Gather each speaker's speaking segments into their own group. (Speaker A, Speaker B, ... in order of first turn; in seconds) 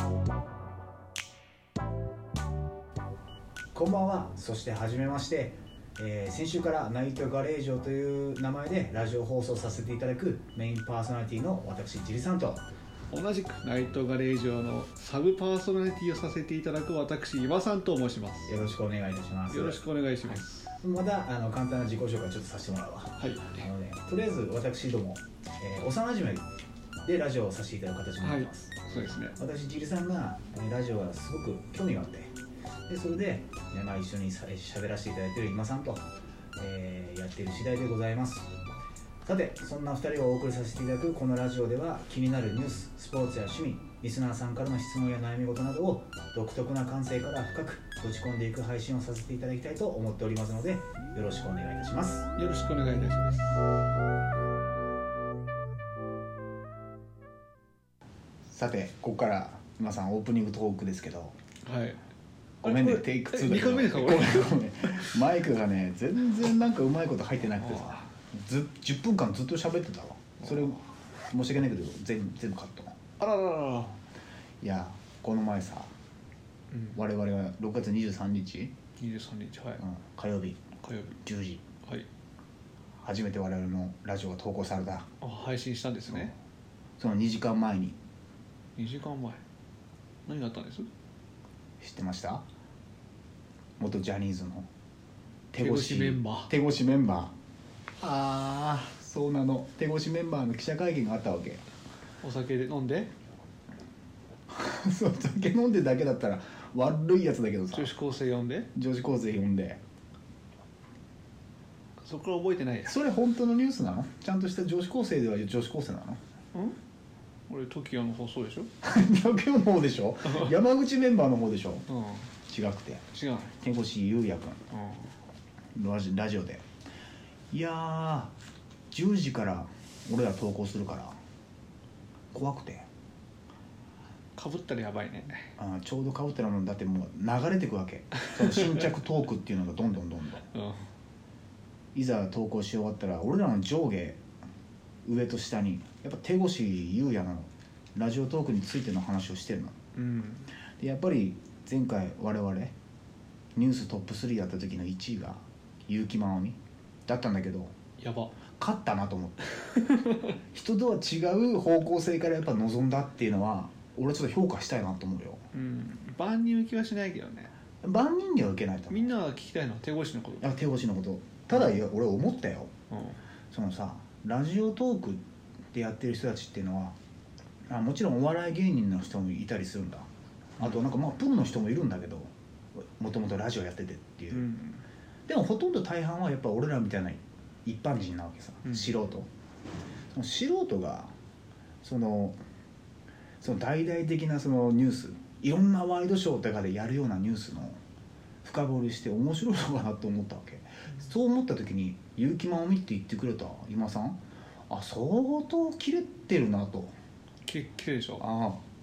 Speaker A: 3.7-12.6, 18.5-26.4, 27.0-28.8, 29.4-32.3, 32.9-36.0, 36.6-38.5, 39.2-52.3, 58.5-61.3, 62.6-73.0, 74.6-75.9, 77.0-78.7, 79.8-80.6, 81.2-81.6, 83.0-85.1, 87.0-88.0, 91.8-92.5, 93.8-94.7, 95.5-97.3, 98.0-101.6, 104.5-107.9, 108.8-109.8, 112.8-116.2, 118.8-121.9, 122.5-123.1, 123.6-124.6, 125.8-126.6, 127.5-128.3, 128.9-131.2, 132.3-132.9, 135.6-140.5, 141.9-144.2, 145.0-149.8, 150.8-152.7, 153.6-157.7, 158.6-159.4, 160.5-165.4, 167.8-169.1, 170.4-172.7, 173.5-175.2, 175.7-176.9, 177.7-184.5, 185.3-189.3, 190.1-191.1, 191.8-192.4, 193.4-197.8, 198.4-204.2, 204.7-206.9, 208.2-208.6
Speaker B: 13.1-18.6, 19.5-20.7, 23.2-23.7, 28.2-29.4, 52.4-53.5, 61.6-62.0, 62.6-65.2, 67.6-68.1, 73.2-74.0, 76.7-77.0, 79.0-79.8, 80.8-81.2, 85.2-86.3, 88.8-89.4, 90.3-90.9, 95.6-96.5, 102.2-103.1, 107.7-108.7, 112.0-113.0, 117.5-118.7, 120.2-120.6, 121.9-122.3, 123.1-123.5, 124.7-125.1, 134.4-135.5, 140.5-140.8, 150.0-150.5, 158.0-158.4, 159.6-160.3, 165.5-167.5, 168.9-170.6, 172.9-173.2, 184.3-184.8, 188.7-188.9, 207.5-208.2